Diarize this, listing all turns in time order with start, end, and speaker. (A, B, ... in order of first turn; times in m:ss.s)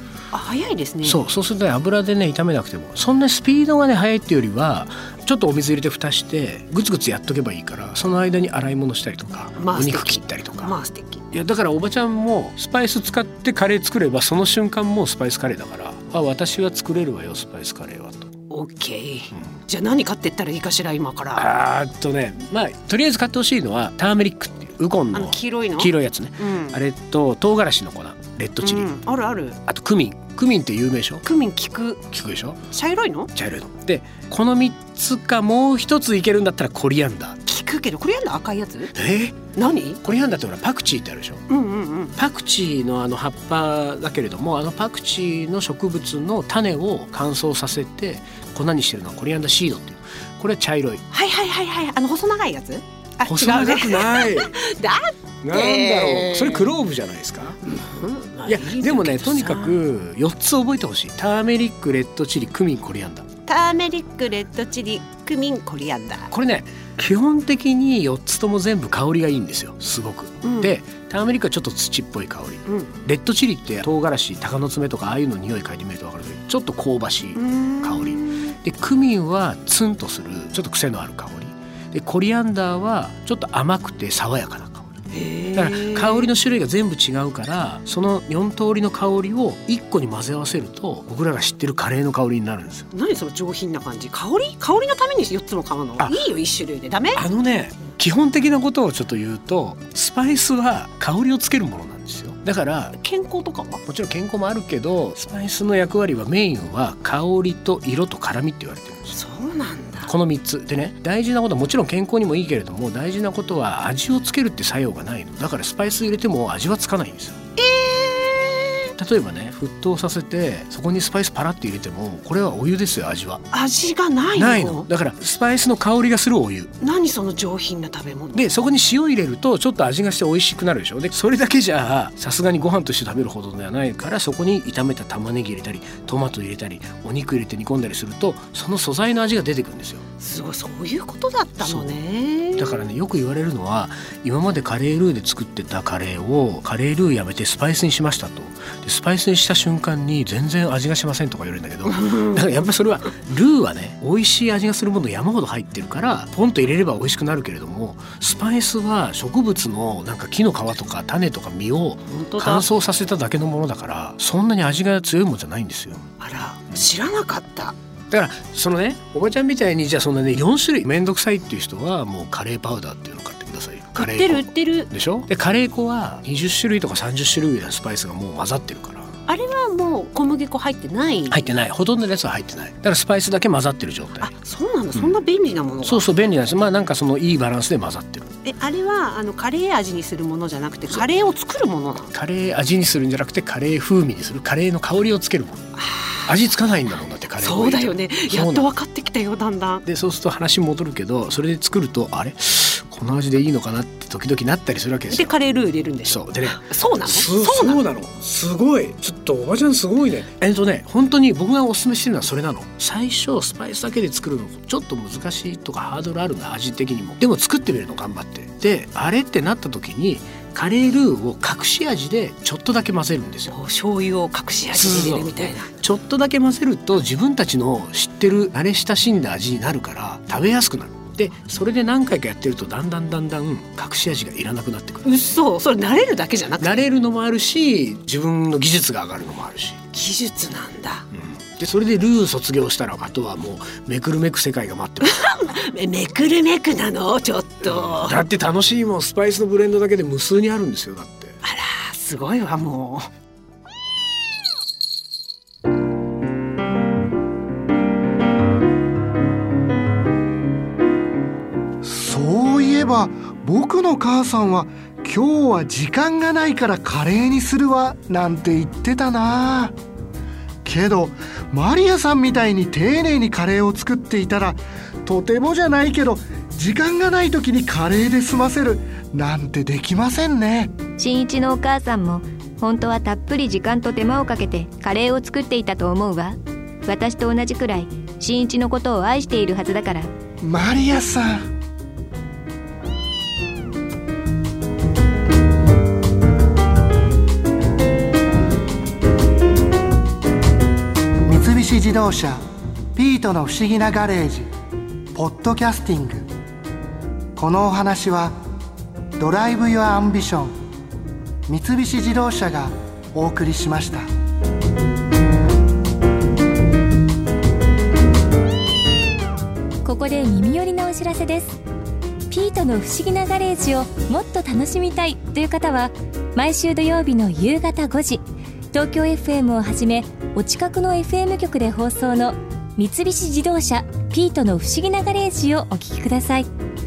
0:00.3-0:01.2 A
0:01.0-0:10.7 B
0:09.6-0:11.2 A
0:11.3-0:18.3 B
0:18.5-0:21.5 A
0:21.4-0:28.9 B
0:25.1-0:26.8 A
0:28.6-0:29.6 A
0:29.7-0:31.2 B
0:31.2-0:32.0 A
0:32.1-0:32.6 B
0:32.7-0:33.3 A
0:33.3-0:37.4 B
0:37.5-0:38.9 A
0:39.0-0:41.4 B
0:39.5-0:40.0 A
0:41.5-0:42.2 A
0:42.2-0:51.0 B
0:51.1-0:56.8 A
0:53.2-0:54.6 B
0:55.4-0:57.6 B
0:57.7-0:59.8 A
0:58.5-1:03.3 B
1:03.5-1:06.3 A
1:06.3-1:25.0 B
1:10.4-1:10.8 A
1:17.4-1:18.5 A
1:25.1-1:26.3 A
1:25.6-1:32.9 B
1:32.9-1:37.2 A
1:37.1-1:43.0 B
1:43.0-1:43.8 A
1:43.9-1:49.2 B
1:49.1-1:50.1 A
1:50.0-1:57.4 B
1:57.6-1:58.9 A
1:59.0-2:03.4 B
2:03.5-2:04.9 A
2:04.4-2:06.7 B
2:06.8-2:08.5 A
2:08.3-2:20.0 B
2:20.2-2:22.8 A
2:21.6-2:21.9 B
2:22.6-2:46.1 B
2:42.1-2:42.7 A
2:46.2-2:47.8 A
2:48.1-2:59.1 B
2:54.0-2:54.9 A
2:59.3-3:01.5 A
3:01.3-3:04.3 B
3:04.2-3:06.1 A
3:05.8-3:08.3 B
3:08.4-3:12.1 A
3:12.1-3:15.6 B
3:15.8-3:16.3 A
3:16.3-3:18.7 B
3:17.4-3:19.8 A
3:19.8-3:25.3 B
3:25.1-3:27.8 A
3:26.0-3:43.6 B
3:43.5-3:45.7 A
3:44.7-3:55.1 B
3:55.0-3:56.8 A
3:56.6-3:59.8 B
3:59.9-4:01.1 A
4:01.1-4:05.2 B
4:05.0-4:08.2 A
4:07.6-4:11.4 B
4:11.4-4:13.1 A
4:21.8-4:29.7 C
4:30.6-4:40.7 C
4:41.0-4:50.1 D
4:50.4-4:51.5 C
5:01.3-5:02.4 C
5:03.0-5:04.5 C
5:05.1-5:06.3 C
5:07.4-5:08.4 C
5:09.2-5:10.5 C
5:11.5-5:14.1 C
5:19.8-5:21.6 E
5:22.3-5:36.5 E